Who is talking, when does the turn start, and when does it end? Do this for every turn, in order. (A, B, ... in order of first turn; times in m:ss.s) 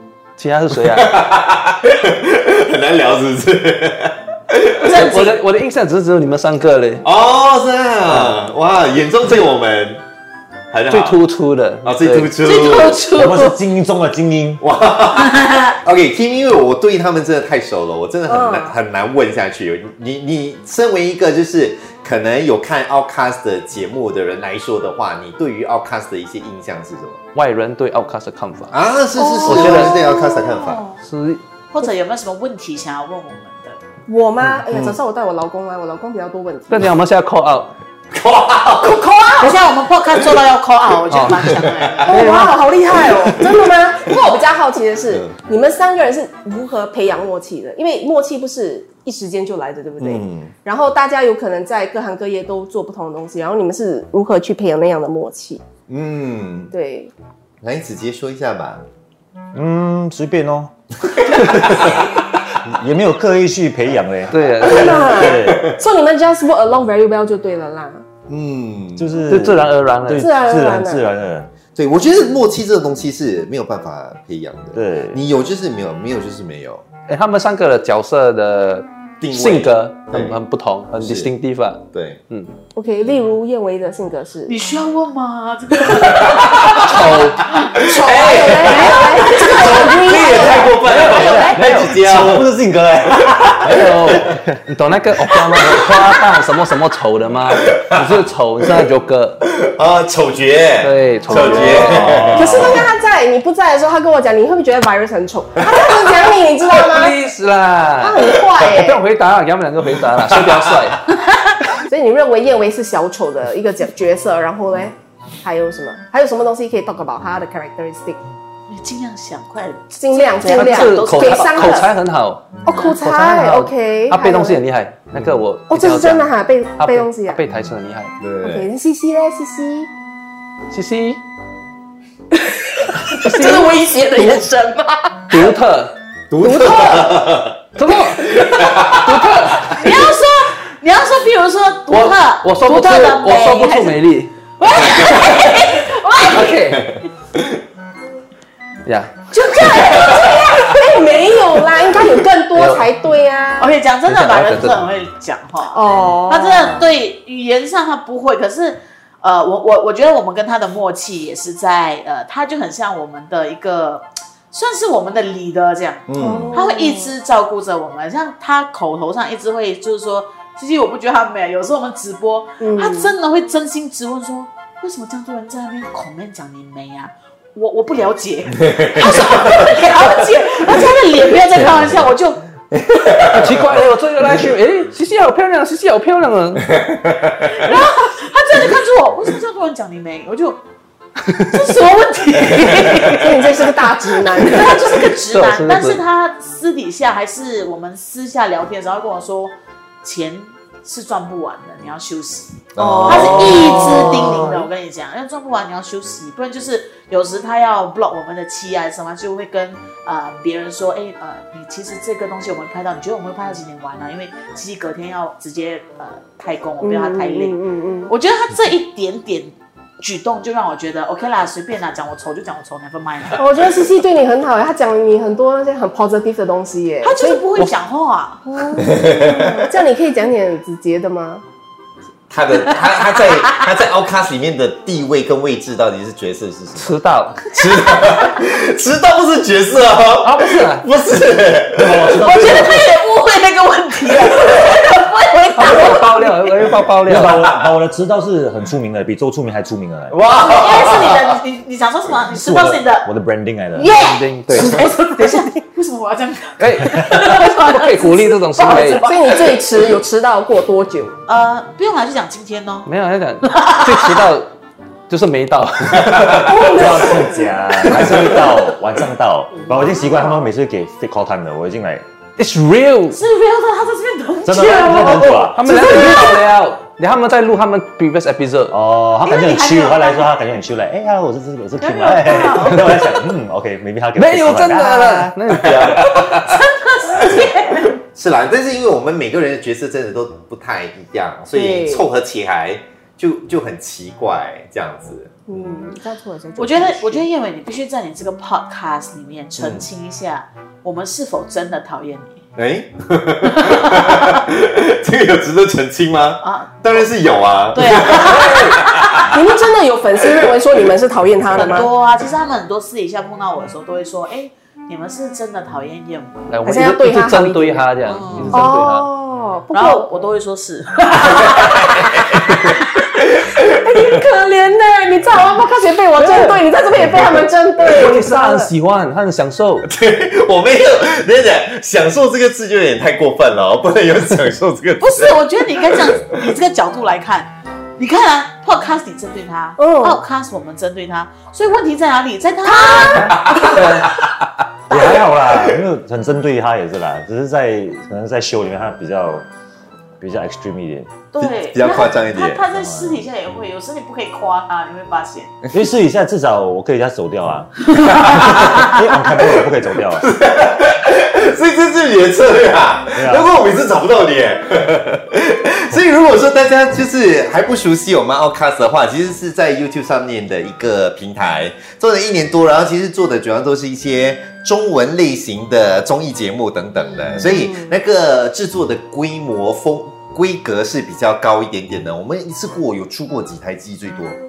0:00.4-0:01.2 A
0:00.8-0:05.2 B
0:04.8-0:05.4 C
0:04.8-0:07.0 A
0:07.0-0:10.0 B
0:10.7-0:11.2 B
0:10.9-0:12.3 A
0:11.8-0:13.1 B
0:12.4-0:13.6 C
0:13.1-0:14.6 D
0:14.6-0:27.2 B
0:15.2-0:15.7 C
0:18.3-0:18.8 E
0:27.3-0:28.7 A
0:28.7-0:30.8 B
0:29.2-0:30.7 E
0:29.4-0:30.0 A
0:30.4-0:31.0 C
0:31.0-0:31.4 A
0:31.7-0:33.8 C
0:34.1-0:36.9 E
0:34.7-0:35.0 B
0:36.7-0:37.7 A
0:38.1-0:39.5 B
0:38.8-0:39.2 E
0:39.4-0:42.2 C
0:41.1-0:41.4 A
0:41.6-0:42.3 B
0:42.0-0:55.6 E
0:42.1-0:42.6 A
0:42.9-0:44.3 B
0:45.1-0:45.4 B
0:50.0-0:50.5 B
0:55.9-0:56.7 B
0:56.7-0:57.1 E
0:57.6-0:58.8 B
0:59.5-1:00.7 D
1:01.1-1:02.0 B
1:01.3-1:01.9 D
1:02.6-1:05.7 D
1:04.3-1:05.1 A
1:04.6-1:08.0 E
1:05.2-1:05.8 B
1:08.3-1:09.1 B
1:09.0-1:11.5 D
1:09.3-1:10.3 A
1:10.1-1:11.0 E
1:11.7-1:16.8 B
1:14.7-1:15.2 D
1:17.1-1:22.5 A
1:19.2-1:20.4 B
1:21.0-1:21.3 B
1:21.9-1:22.2 B
1:22.7-1:24.6 E
1:24.4-1:30.5 C
1:25.9-1:26.9 B
1:26.7-1:27.5 A
1:27.7-1:34.3 B
1:27.8-1:30.8 E
1:30.8-1:31.9 A
1:30.9-1:34.4 D
1:33.6-1:39.4 A
1:37.5-1:38.2 B
1:39.4-1:42.8 B
1:40.8-1:42.4 A
1:41.8-1:42.9 D
1:42.3-1:47.2 E
1:45.6-1:46.1 B
1:46.8-1:51.1 A
1:48.0-1:49.0 E
1:50.3-1:50.9 B
1:51.8-1:58.2 E
1:58.7-2:01.9 C
2:00.0-2:01.9 E
2:00.4-2:08.1 A
2:02.6-2:04.6 E
2:05.7-2:07.4 E
2:08.2-2:08.7 B
2:08.4-2:09.9 E
2:10.7-2:11.2 A
2:12.3-2:15.4 E
2:13.1-2:14.3 A
2:15.3-2:16.0 A
2:16.3-2:19.8 B
2:16.4-2:17.2 E
2:17.8-2:19.9 A
2:19.7-2:24.0 C
2:21.9-2:24.3 A
2:24.6-2:26.6 C
2:26.3-2:27.0 A
2:26.8-2:27.6 B
2:28.8-2:29.2 A
2:29.3-2:30.5 C
2:29.7-2:33.7 E
2:30.1-2:30.6 B
2:32.5-2:32.9 A
2:33.6-3:02.4 C
2:34.0-2:34.8 A
2:35.7-2:36.9 E
2:46.1-2:46.5 B
2:46.2-2:47.1 E
2:52.6-2:53.1 E
2:58.6-2:59.9 B
3:02.7-3:03.6 B
3:03.3-3:06.7 A
3:06.6-3:07.8 B
3:07.4-3:10.6 C
3:11.3-3:13.5 C
3:12.7-3:13.0 B
3:13.0-3:15.0 E
3:14.4-3:43.5 C
3:15.3-3:16.0 A
3:22.7-3:24.6 B
3:23.1-3:24.6 E
3:36.8-3:38.1 E
3:43.4-3:47.4 E
3:47.0-3:48.4 C
3:48.4-3:51.4 E
3:48.8-3:49.7 B
3:52.3-4:02.8 B
3:56.8-3:57.4 A
4:00.2-4:00.9 A
4:01.7-4:02.7 D
4:02.2-4:06.4 C
4:04.3-4:04.7 B
4:05.6-4:07.4 A
4:07.0-4:10.2 D
4:10.1-4:11.4 B
4:10.3-4:13.1 C
4:12.3-4:13.9 D
4:13.7-4:19.6 C
4:13.9-4:14.8 A
4:16.6-4:19.0 A
4:18.6-4:21.2 E
4:21.3-4:22.9 C
4:22.8-4:24.5 A
4:23.5-4:24.2 C
4:25.1-4:26.5 A
4:26.0-4:26.5 B
4:26.4-4:28.0 E
4:26.6-4:32.0 D
4:29.8-4:30.4 E
4:32.4-4:33.2 A
4:33.1-4:35.5 C
4:34.4-4:36.3 D
4:35.0-4:38.8 A
4:35.7-4:36.3 E
4:38.7-4:45.3 D
4:39.2-4:40.3 C
4:41.8-4:43.2 C
4:44.2-4:46.2 A
4:45.5-4:55.3 B
4:46.0-4:48.0 C
4:51.5-4:52.1 E
4:55.5-4:57.3 E
4:56.6-5:02.4 C
4:59.6-4:59.9 B
5:02.6-5:09.3 B
5:03.4-5:04.4 C
5:06.4-5:07.1 C
5:07.7-5:09.3 C
5:08.3-5:11.9 E
5:11.5-5:16.5 C
5:11.6-5:11.8 B
5:16.5-5:19.1 A
5:16.6-5:17.9 E
5:18.0-5:18.7 C
5:18.5-5:20.1 E
5:19.7-5:22.8 C
5:21.3-5:24.2 B
5:23.6-5:28.7 E
5:26.2-5:26.6 A
5:27.0-5:27.4 B
5:27.8-5:29.9 A
5:29.8-5:36.5 B
5:35.0-5:43.7 C
5:39.8-5:40.2 E
5:42.7-5:43.8 E
5:43.2-5:44.3 B
5:43.3-5:44.1 A
5:44.9-5:49.4 D
5:44.9-5:45.8 B
5:50.2-5:51.1 D
5:51.3-5:55.5 C
5:51.4-5:52.6 B
5:52.7-5:53.2 D
5:55.7-6:00.3 D
5:58.0-5:58.6 C
5:58.0-5:58.9 B
5:59.4-6:24.4 B
6:03.1-6:03.5 D
6:17.4-6:18.0 E